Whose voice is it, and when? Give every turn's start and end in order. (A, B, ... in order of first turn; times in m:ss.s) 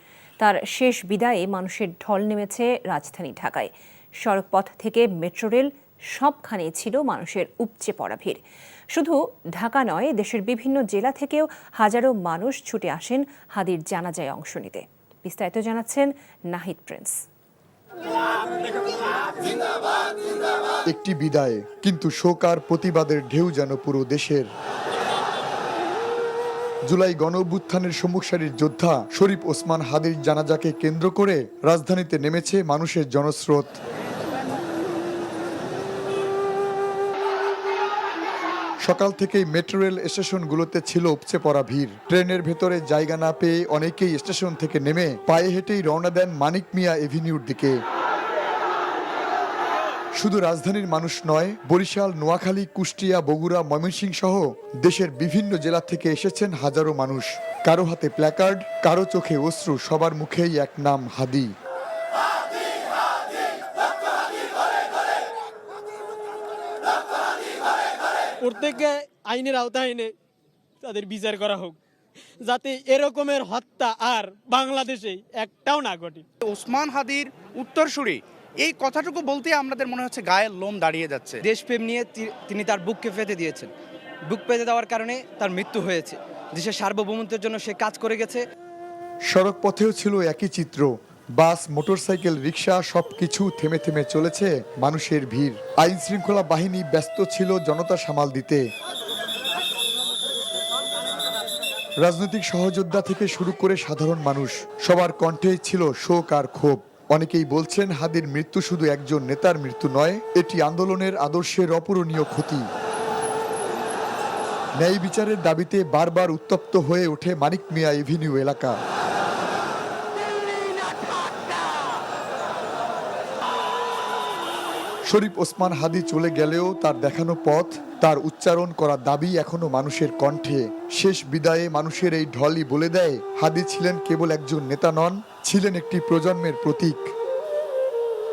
0:00.4-0:03.7 A
0:04.2-0:08.4 A
0:08.9-0:17.2 A
0:20.9-0:24.5 B
0:26.9-0:33.8 B
0:38.8-0:47.8 B
0:50.2-1:01.5 B
1:08.4-1:10.1 C
1:10.8-1:11.8 C
1:12.4-1:16.3 C
1:16.4-1:21.4 D
1:21.4-1:23.7 E
1:24.3-1:28.4 E
1:29.3-1:38.6 B
1:42.0-1:52.7 B
1:54.8-1:58.8 B
2:05.1-2:17.1 B